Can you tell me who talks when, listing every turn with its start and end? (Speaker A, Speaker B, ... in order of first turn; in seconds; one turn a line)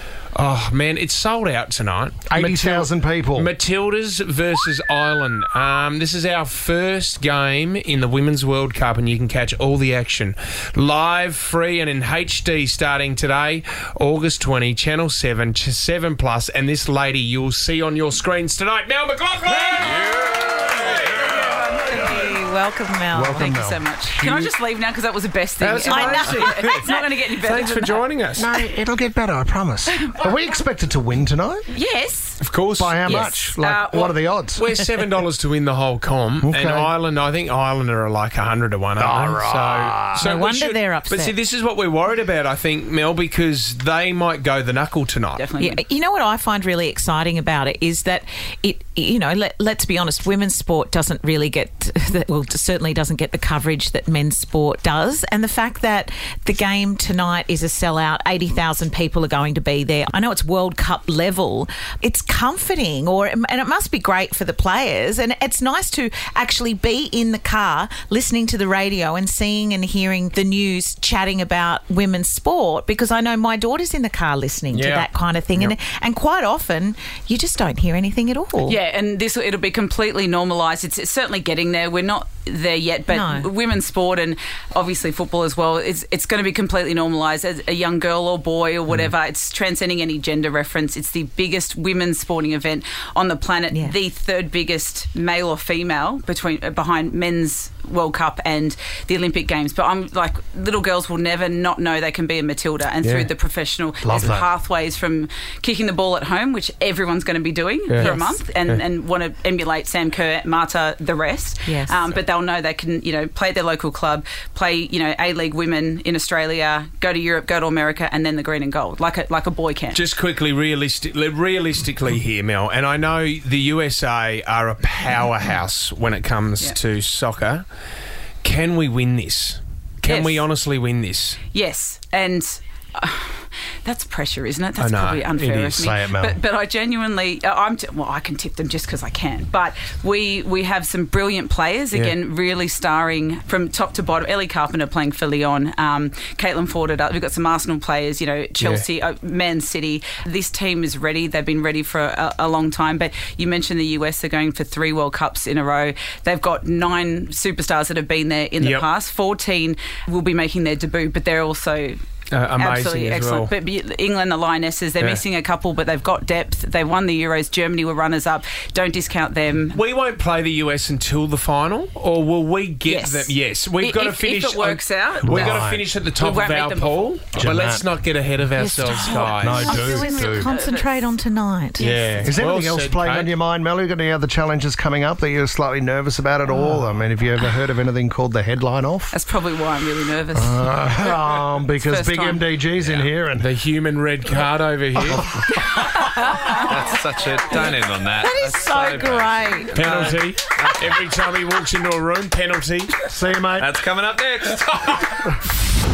Speaker A: 0.3-21.3
Speaker B: 2.3-3.5
Speaker C: 21.2-22.4
Speaker D: 22.1-23.6
Speaker B: 23.1-24.5
Speaker C: 23.3-28.1
Speaker A: 25.6-26.9
Speaker D: 25.9-27.1
Speaker A: 27.4-28.5
Speaker B: 28.4-31.7
Speaker C: 31.7-32.4
Speaker A: 32.4-33.3
Speaker B: 32.8-34.7
Speaker C: 33.0-34.2
Speaker A: 34.5-45.5
Speaker B: 36.4-36.9
Speaker B: 39.0-40.3
Speaker D: 40.2-41.4
Speaker C: 45.4-45.8
Speaker D: 45.6-78.8
Speaker A: 74.7-75.7
Speaker C: 78.6-120.0
Speaker D: 83.1-83.5
Speaker B: 103.0-103.3
Speaker B: 104.0-104.5
Speaker A: 107.9-108.8
Speaker D: 108.0-108.3
Speaker D: 111.7-112.1
Speaker A: 119.9-127.7
Speaker A: 128.4-131.4
Speaker C: 130.0-130.5
Speaker C: 131.5-162.0
Speaker A: 134.8-135.8
Speaker B: 135.7-136.4
Speaker A: 148.6-148.8
Speaker A: 158.6-158.8
Speaker A: 162.3-163.5
Speaker C: 162.6-169.8
Speaker A: 169.7-180.0
Speaker C: 172.8-175.6
Speaker B: 175.2-175.9
Speaker C: 176.2-177.2
Speaker B: 177.3-177.9
Speaker D: 178.6-181.9
Speaker B: 178.7-180.5
Speaker C: 179.2-181.2
Speaker C: 181.8-182.3
Speaker A: 181.8-183.3
Speaker B: 182.2-189.1
Speaker C: 189.1-190.8
Speaker B: 190.3-193.5
Speaker C: 191.7-192.5
Speaker E: 192.8-193.1
Speaker A: 193.4-195.3
Speaker B: 195.1-195.6
Speaker C: 196.0-196.6
Speaker E: 196.5-201.2
Speaker D: 198.2-199.9
Speaker A: 199.7-203.0
Speaker B: 203.1-203.7
Speaker E: 203.6-205.3